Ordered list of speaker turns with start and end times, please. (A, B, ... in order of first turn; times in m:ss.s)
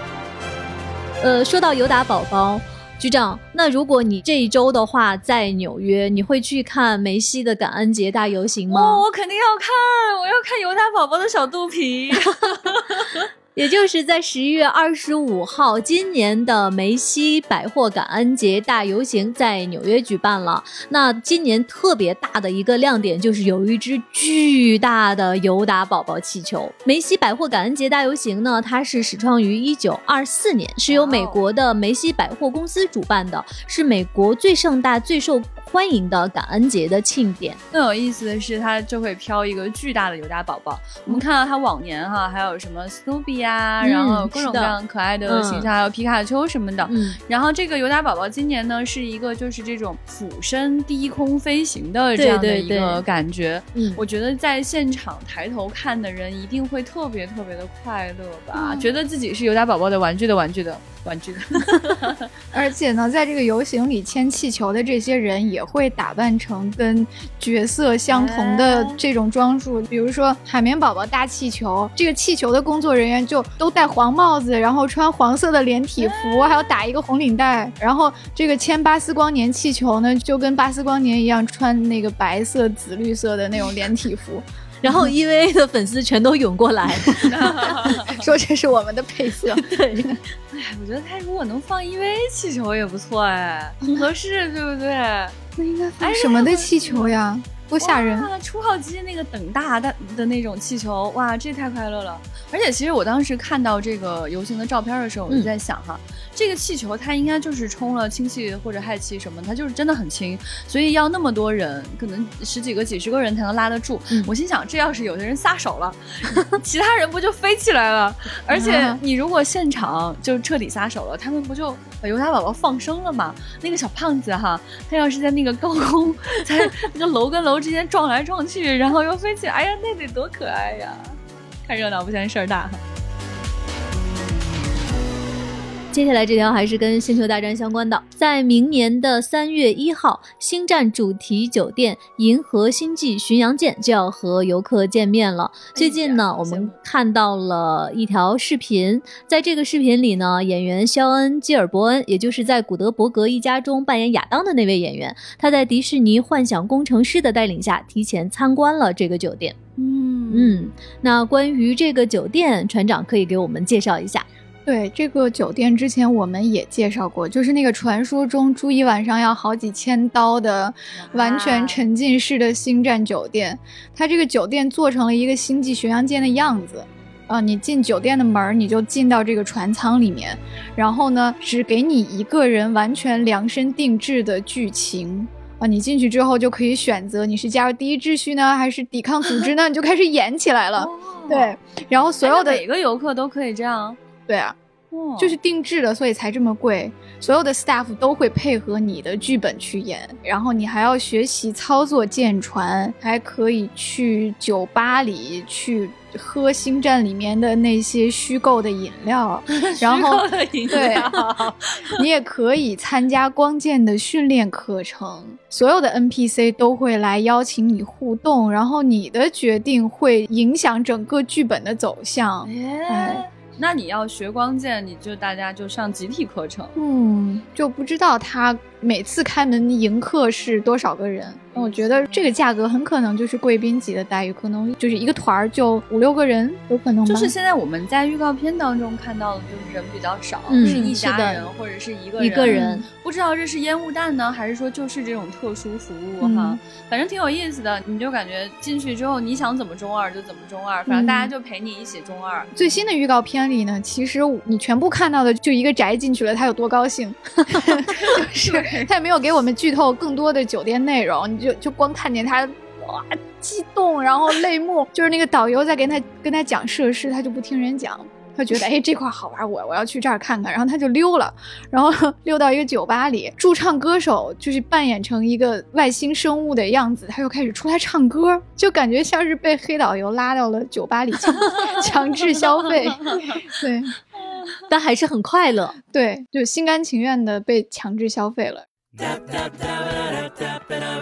0:01.2-0:09.0 A
0:08.7-0:13.3 B
0:12.2-0:12.5 A
0:13.6-0:37.6 A
0:30.9-0:31.4 B
0:37.7-1:02.3 B
0:43.8-0:44.8 A
0:45.3-0:45.7 A
0:46.9-0:47.2 A
0:52.2-0:53.0 A
0:53.8-0:54.0 A
0:58.5-0:58.9 C
1:02.5-1:24.4 C
1:08.1-1:09.0 B
1:16.0-1:16.8 B
1:24.8-1:27.7 A
1:27.2-1:28.2 B
1:28.1-1:30.2 C
1:29.5-1:30.2 A
1:30.5-1:35.4 B
1:35.6-1:38.3 C
1:36.0-1:37.1 B
1:37.8-2:12.8 B
1:58.5-1:59.0 C
2:15.9-2:39.6 A
2:25.8-2:26.8 B
2:39.8-2:40.7 B
2:40.3-2:44.3 A
2:44.7-3:12.6 C
2:51.0-2:51.8 B
3:10.8-3:11.6 B
3:12.2-3:14.0 B
3:14.3-3:14.6 C
3:14.9-3:15.4 B
3:15.2-3:31.2 C
3:29.5-3:32.0 B
3:32.0-3:43.3 C
3:42.4-3:46.8 B
3:46.8-3:57.3 C
3:51.5-3:52.3 B
3:57.1-4:12.5 B
4:00.5-4:01.4 A
4:00.6-4:00.9 C
4:02.2-4:02.9 A
4:02.5-4:02.8 C
4:06.2-4:06.6 C
4:10.9-4:11.3 C
4:12.6-4:44.0 C
4:17.9-4:18.9 B
4:43.1-4:43.4 B
4:44.7-4:45.8 A
4:45.9-4:48.7 C